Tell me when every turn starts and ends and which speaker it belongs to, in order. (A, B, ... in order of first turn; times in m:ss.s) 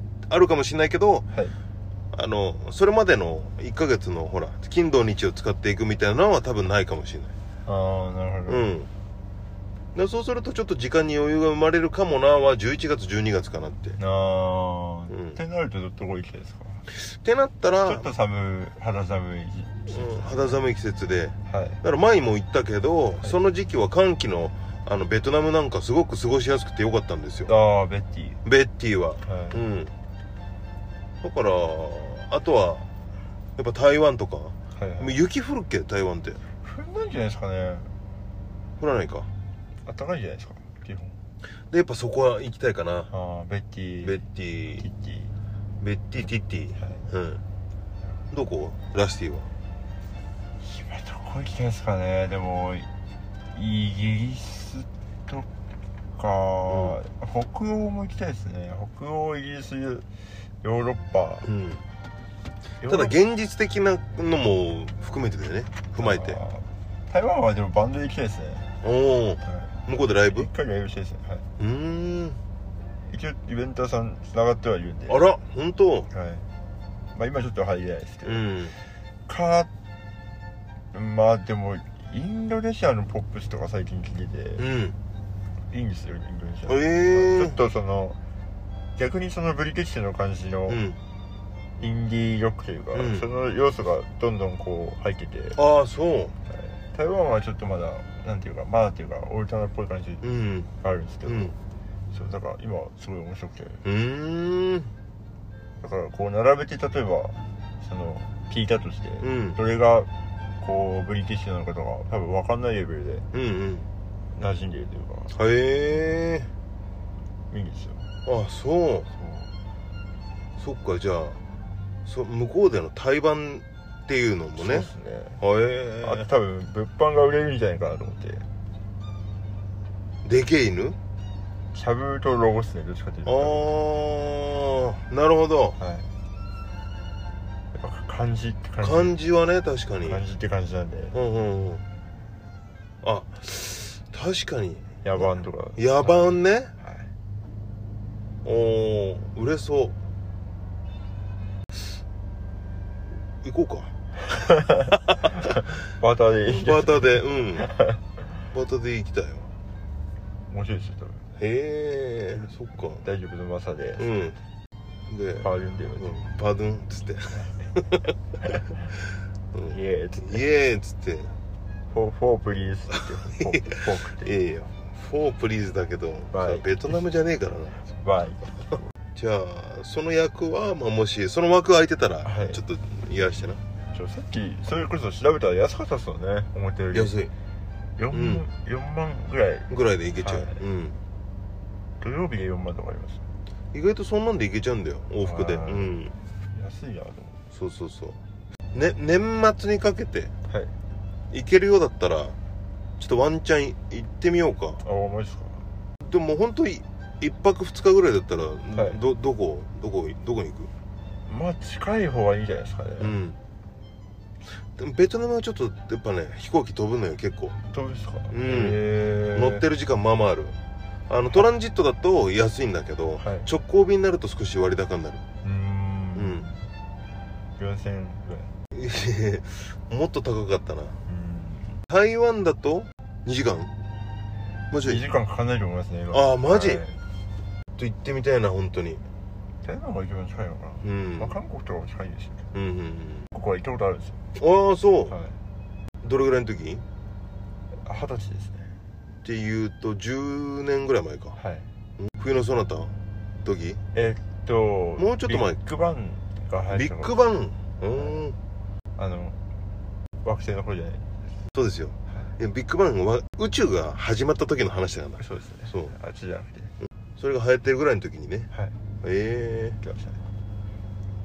0:00.3-0:01.2 A
0:02.1-0:07.3 A
0:07.6-0:08.7 B
0:08.5-0:08.9 A
0:09.9-0:14.0 A
0:14.0-0:16.8 B
0:15.1-0:15.4 A
0:16.9-0:18.1 A
0:17.8-0:20.6 B
0:19.9-0:27.5 A
0:21.5-0:21.8 B
0:27.5-0:28.4 B
0:28.4-0:29.9 A
0:29.2-0:29.6 B
0:31.2-0:32.9 A
0:33.6-0:36.4 A
0:34.7-0:35.2 B
0:36.6-0:37.9 B
0:38.8-0:39.3 A
0:39.8-0:41.2 B
0:41.7-0:43.1 A
0:43.1-0:44.2 B
0:44.0-0:44.8 A
0:44.8-0:45.3 B
0:45.8-0:47.4 A
0:46.8-0:47.1 B
0:48.3-0:49.5 A
0:50.6-0:52.9 B
0:53.5-0:55.5 B
0:56.2-1:00.1 B
0:56.7-0:57.0 A
1:00.6-1:01.5 B
1:01.4-1:01.8 A
1:02.8-1:03.1 B
1:02.8-1:06.4 A
1:06.0-1:08.7 B
1:08.8-1:10.5 A
1:09.4-1:11.4 B
1:11.6-1:12.4 A
1:13.1-1:15.2 B
1:15.1-1:16.1 A
1:16.1-1:16.4 B
1:17.1-1:18.5 B
1:18.2-1:18.7 A
1:19.3-1:19.7 B
1:20.9-1:24.6 B
1:24.6-1:25.0 A
1:25.7-1:28.2 B
1:26.7-1:27.6 A
1:29.0-1:30.8 B
1:30.7-1:31.0 A
1:31.8-1:35.6 B
1:32.9-1:33.2 A
1:35.6-1:36.3 A
1:36.5-1:40.2 B
1:40.2-1:40.7 A
1:40.8-1:41.6 B
1:41.2-1:41.5 A
1:42.1-1:43.8 B
1:43.8-1:44.9 A
1:45.8-1:50.1 B
1:49.2-1:49.6 A
1:50.6-1:53.3 B
1:53.3-1:53.9 A
1:54.3-1:55.3 B
1:55.3-1:56.5 A
1:57.5-1:58.0 B
1:58.2-1:59.1 A
1:59.1-1:59.5 B
2:00.6-2:01.4 A
2:02.0-2:04.9 A
2:04.6-2:05.4 B
2:05.4-2:06.2 A
2:06.0-2:08.4 B
2:10.2-2:11.0 A
2:11.7-2:13.7 B
2:13.2-2:15.8 A
2:15.8-2:16.1 B
2:17.7-2:19.2 B
2:18.8-2:20.2 A
2:20.0-2:21.2 B
2:21.1-2:21.8 A
2:23.0-2:26.7 A
2:25.0-2:27.1 B
2:28.4-2:30.0 A
2:33.4-2:33.9 A
2:34.2-2:38.0 B
2:34.9-2:35.3 A
2:36.4-2:37.7 A
2:38.5-2:39.5 A
2:40.5-2:41.2 B
2:41.4-2:43.0 A
2:43.0-2:44.2 B
2:44.0-2:44.4 A
2:45.1-2:45.5 A
2:45.4-2:46.2 B
2:46.0-2:48.0 A
2:48.4-2:48.7 B
2:49.5-2:51.3 A
2:49.6-2:50.4 B
2:51.9-2:54.3 B
2:53.2-2:57.8 A
2:56.3-2:57.0 B
2:57.9-2:58.9 B
2:59.1-3:03.6 A
3:02.2-3:02.6 B
3:03.9-3:07.2 B
3:06.9-3:07.3 A
3:08.0-3:10.6 B
3:08.1-3:08.4 A
3:09.7-3:11.0 A
3:12.0-3:13.2 B
3:13.7-3:16.1 A
3:15.2-3:16.0 B
3:16.5-3:17.4 B
3:17.5-3:18.2 A
3:18.7-3:20.3 A
3:21.3-3:22.4 A
3:23.0-3:24.8 A
3:24.8-3:25.6 B
3:26.0-3:30.7 A
3:31.2-3:33.2 B
3:33.0-3:33.4 A
3:34.8-3:37.6 A
3:37.7-3:39.7 B
3:38.3-3:38.8 A
3:39.3-3:40.5 A
3:41.1-3:45.2 A
3:43.2-3:43.5 B
3:45.4-3:46.6 B
3:46.1-3:46.5 A
3:47.6-3:48.5 B
3:48.7-3:51.0 A
3:51.1-3:51.8 B
3:51.9-3:53.7 A
3:54.7-3:55.0 A
3:54.8-3:57.0 B
3:56.1-3:56.8 A
3:57.8-3:59.0 A
3:59.6-4:02.5 B
4:00.8-4:01.4 A
4:02.5-4:03.3 A
4:03.3-4:04.2 B
4:04.4-4:05.1 A
4:05.1-4:05.4 B
4:06.0-4:06.8 A
4:07.8-4:08.7 B
4:09.2-4:11.4 A
4:11.4-4:11.7 B
4:12.0-4:12.9 A
4:13.4-4:13.8 A
4:13.9-4:17.2 B
4:15.0-4:15.6 A
4:16.7-4:18.4 A
4:17.9-4:18.2 B
4:19.0-4:19.4 B
4:20.2-4:21.3 B
4:21.5-4:25.9 A
4:25.2-4:26.7 B
4:27.2-4:28.5 A
4:29.0-4:29.8 A
4:29.8-4:30.2 B